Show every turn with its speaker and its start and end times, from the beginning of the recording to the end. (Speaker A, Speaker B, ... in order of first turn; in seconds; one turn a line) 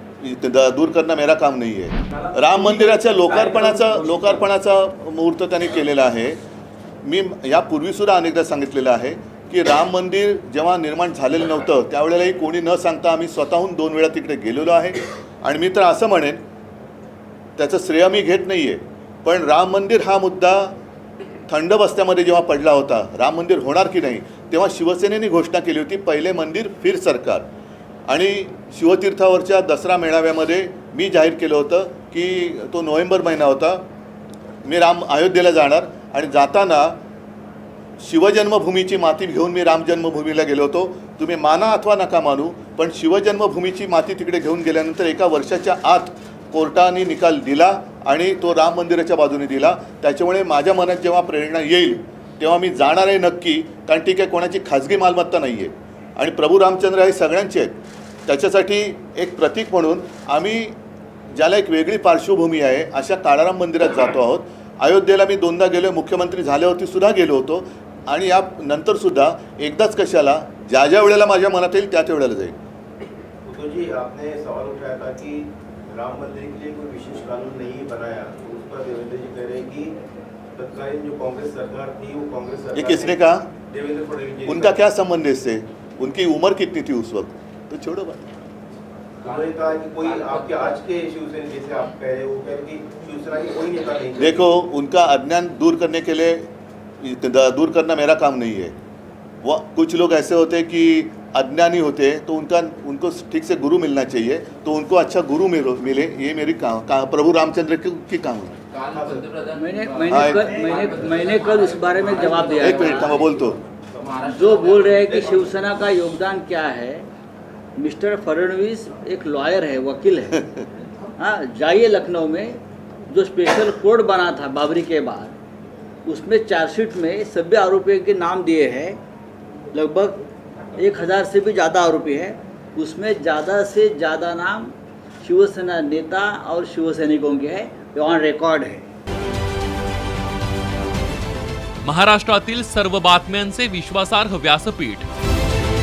Speaker A: 0.2-6.4
Speaker A: 7.0-16.4
Speaker A: 17.6-20.8
Speaker A: 21.5-27.5
Speaker A: 28.1-33.8
Speaker A: 34.6-37.0
Speaker A: 38.0-60.8
Speaker A: 61.4-72.6
Speaker B: 73.5-80.0
Speaker B: 80.5-84.8
Speaker A: 82.8-83.5
Speaker A: 84.5-88.3
Speaker B: 89.2-94.5
Speaker A: 94.2-96.5
Speaker A: 97.0-98.7
Speaker A: 99.4-108.6
Speaker C: 108.7-113.3
Speaker B: 108.9-109.3
Speaker D: 109.5-113.2
Speaker A: 110.1-110.5
Speaker A: 112.5-113.6
Speaker C: 114.0-115.1
Speaker D: 114.3-117.0
Speaker B: 115.1-115.6
Speaker D: 117.8-120.5
Speaker D: 121.2-125.3
Speaker D: 126.1-129.0
Speaker D: 129.7-130.2
Speaker D: 130.8-138.8
Speaker E: 141.8-145.1